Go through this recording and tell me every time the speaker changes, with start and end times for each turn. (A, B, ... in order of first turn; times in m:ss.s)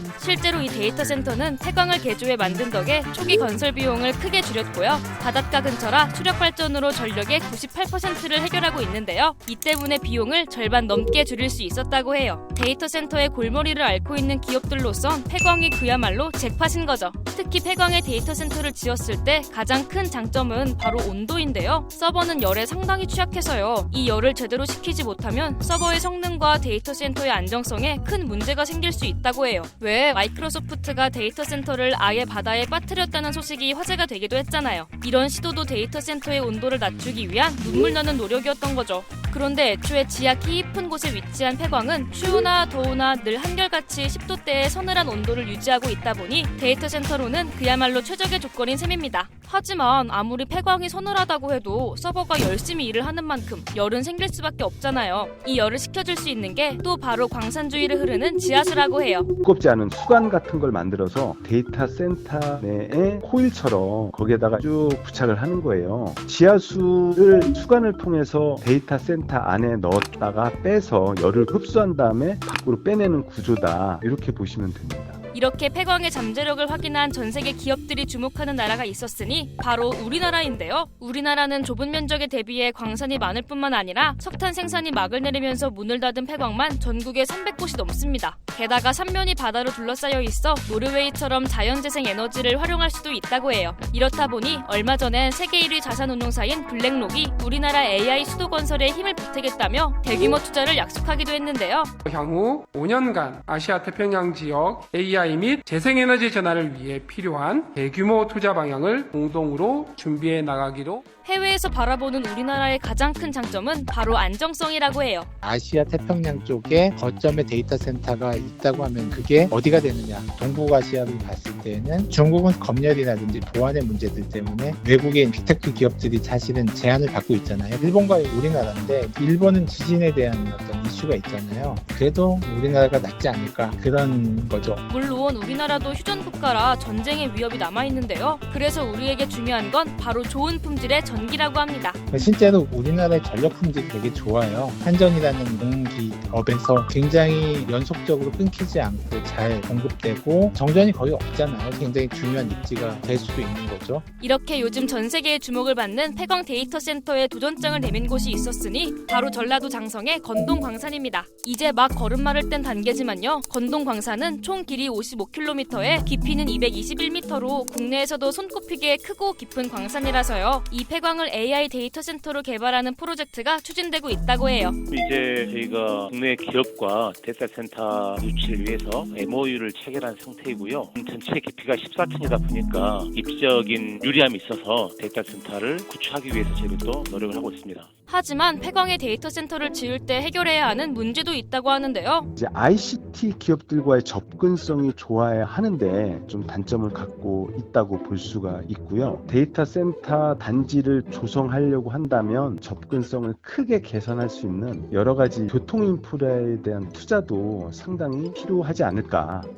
0:00.2-0:59.3 A
0:59.4-1:15.2 B
1:15.3-1:41.9 A
1:42.0-1:51.0 C
1:51.2-1:55.3 A
1:55.4-2:14.8 D
2:14.9-2:22.0 A
2:22.1-2:34.0 D
2:34.2-2:54.8 A
2:54.9-3:07.9 E
3:08.1-3:12.3 A
3:12.4-3:29.5 B